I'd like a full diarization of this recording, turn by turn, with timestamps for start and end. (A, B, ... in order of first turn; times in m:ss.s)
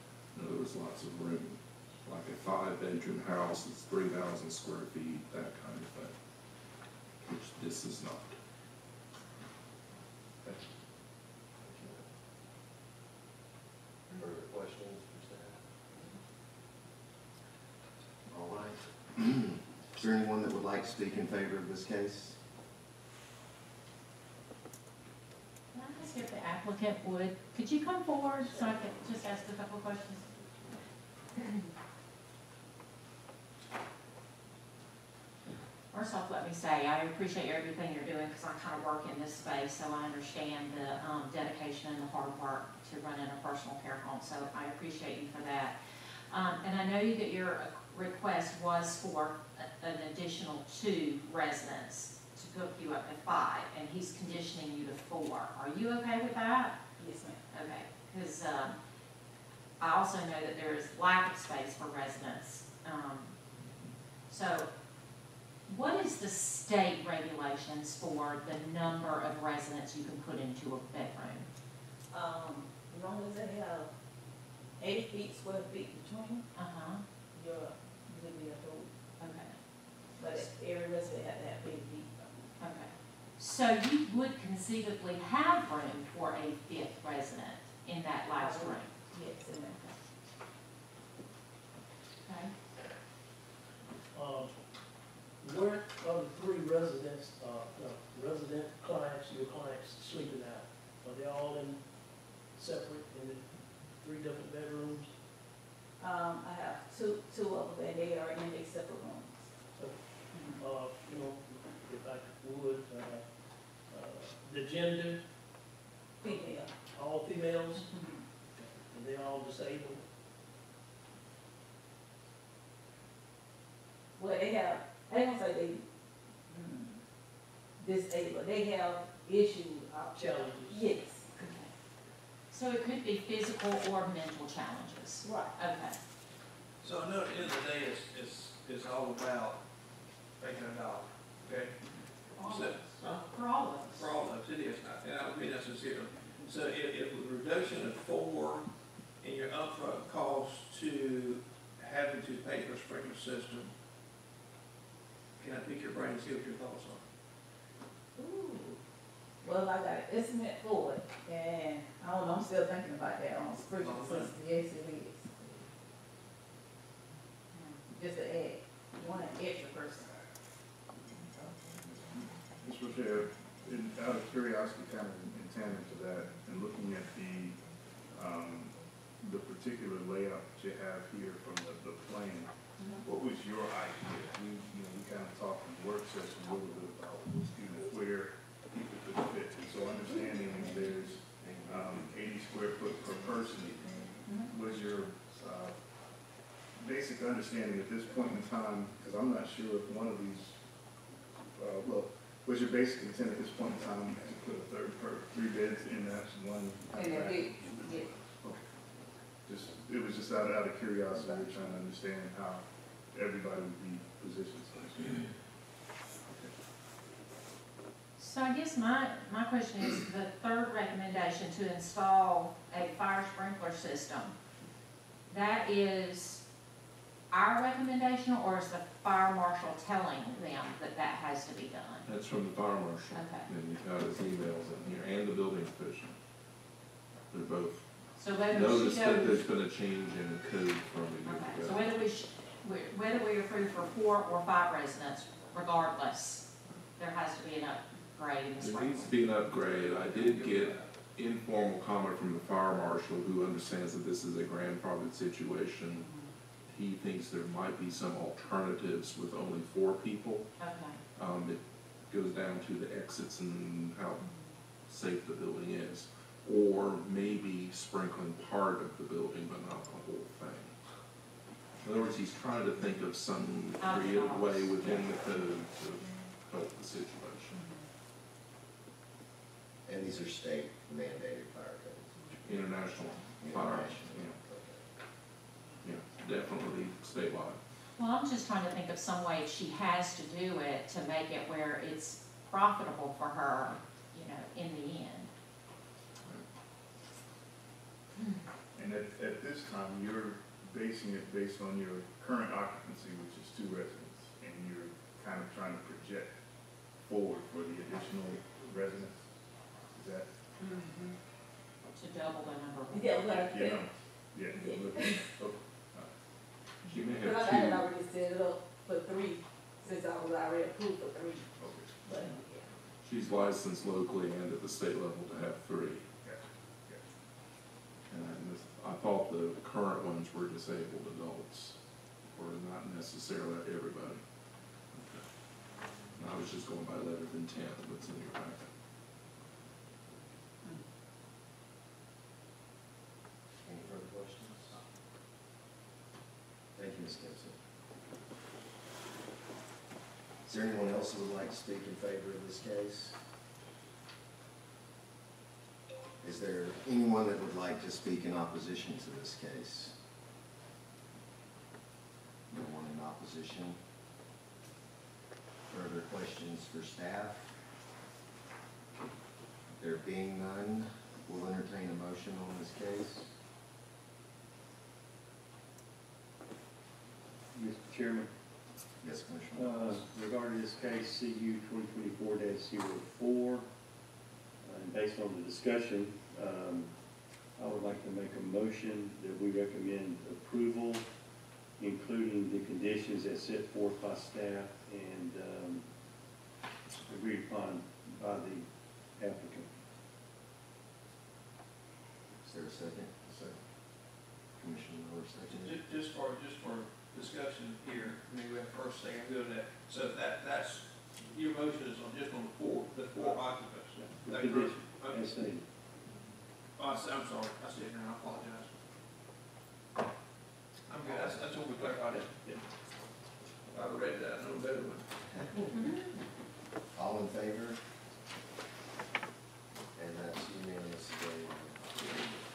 0:00.3-0:06.1 A
0:07.2-0:08.4 A
0:11.6-0:12.1 B
0:14.1-0:15.7 B
0:18.3-0:22.4 B
0:25.7-0:30.2 C
0:31.4-0:31.6 C
0:35.9-0:45.8 C
0:46.3-0:56.7 C
0:57.0-0:57.4 D
0:57.5-0:58.8 C
0:59.8-1:03.3 C
1:04.3-1:04.7 C
1:05.7-1:11.5 C
1:12.1-1:13.9 D
1:14.8-1:16.4 D
1:16.5-1:17.0 C
1:17.3-1:18.9 D
1:19.2-1:19.6 C
1:20.1-1:20.5 C
1:20.2-1:22.4 D
1:22.6-1:29.1 C
1:28.4-1:29.9 D
1:32.2-1:32.5 C
1:34.1-1:34.8 E
1:35.4-1:45.2 E
1:46.0-1:49.4 D
1:49.7-1:55.2 E
1:56.2-1:56.7 D
1:56.2-1:57.9 E
1:58.5-2:00.0 E
2:04.2-2:05.8 D
2:06.5-2:07.0 D
2:07.8-2:11.4 D
2:10.1-2:10.9 E
2:11.4-2:11.7 C
2:12.5-2:16.0 C
2:15.2-2:15.5 D
2:16.8-2:19.6 F
2:20.4-2:23.2 F
2:22.4-2:24.2 C
2:23.8-2:28.7 F
2:29.2-2:33.7 F
2:35.4-2:37.0 F
2:38.2-2:38.7 D
2:39.4-2:45.4 D
2:43.8-2:44.3 F
2:47.5-2:47.8 C
2:47.9-2:50.2 D
2:52.6-3:15.8 G
3:16.8-3:20.6 G
3:21.6-3:28.6 G
3:27.0-3:28.1 D
3:29.4-3:35.3 G
3:38.2-3:44.3 C
3:45.3-3:46.4 C
3:47.3-3:52.1 C
3:52.0-3:56.2 A
3:53.1-3:53.5 C
3:57.3-3:57.9 A
3:58.2-3:59.4 C
3:58.4-4:01.9 A
4:01.2-4:09.1 C
4:08.6-4:16.1 A
4:09.3-4:10.9 F
4:15.9-4:16.3 C
4:16.7-4:20.5 A
4:20.6-4:21.0 C
4:21.1-4:24.3 A
4:24.2-4:24.5 C
4:24.9-4:30.8 A
4:31.8-4:37.6 A
4:33.8-4:35.3 C
4:37.5-4:37.8 C
4:39.8-4:42.3 B
4:42.4-4:44.4 A
4:43.4-4:44.8 B
4:45.8-4:47.6 A
4:48.0-4:55.3 C
4:58.2-4:58.4 C
4:58.7-5:06.3 G
5:07.0-5:09.3 G
5:09.9-5:10.3 G
5:10.6-5:11.1 C
5:11.8-5:13.2 C
5:12.9-5:13.8 D
5:13.2-5:16.1 G
5:14.5-5:15.2 D
5:16.8-5:17.9 A
5:17.3-5:21.4 D
5:21.6-5:22.0 G
5:22.0-5:22.6 D
5:23.0-5:26.1 A
5:26.2-5:27.0 G
5:28.1-5:31.8 A
5:32.3-5:34.2 A
5:34.9-5:35.2 A
5:36.2-5:38.7 A
5:43.6-5:44.8 B
5:46.7-5:47.6 B
5:50.4-5:53.2 B
5:56.2-5:59.9 B
6:02.5-6:03.8 B
6:05.7-6:07.5 B
6:09.8-6:13.3 B
6:17.5-6:18.3 H
6:19.0-6:20.0 B
6:19.5-6:23.7 H
6:24.6-6:26.9 H
6:27.6-6:31.0 H
6:31.8-6:35.8 H
6:37.0-6:39.7 H
6:42.4-6:43.2 B
6:43.3-6:43.6 G
6:44.6-6:45.8 B
6:45.6-6:55.2 F
6:54.0-6:55.7 H
6:56.8-6:58.7 F
7:00.9-7:02.4 F
7:03.7-7:05.0 F
7:05.3-7:05.6 B
7:05.7-7:06.1 C
7:06.9-7:07.8 B
7:09.9-7:11.8 B
7:11.9-7:12.4 F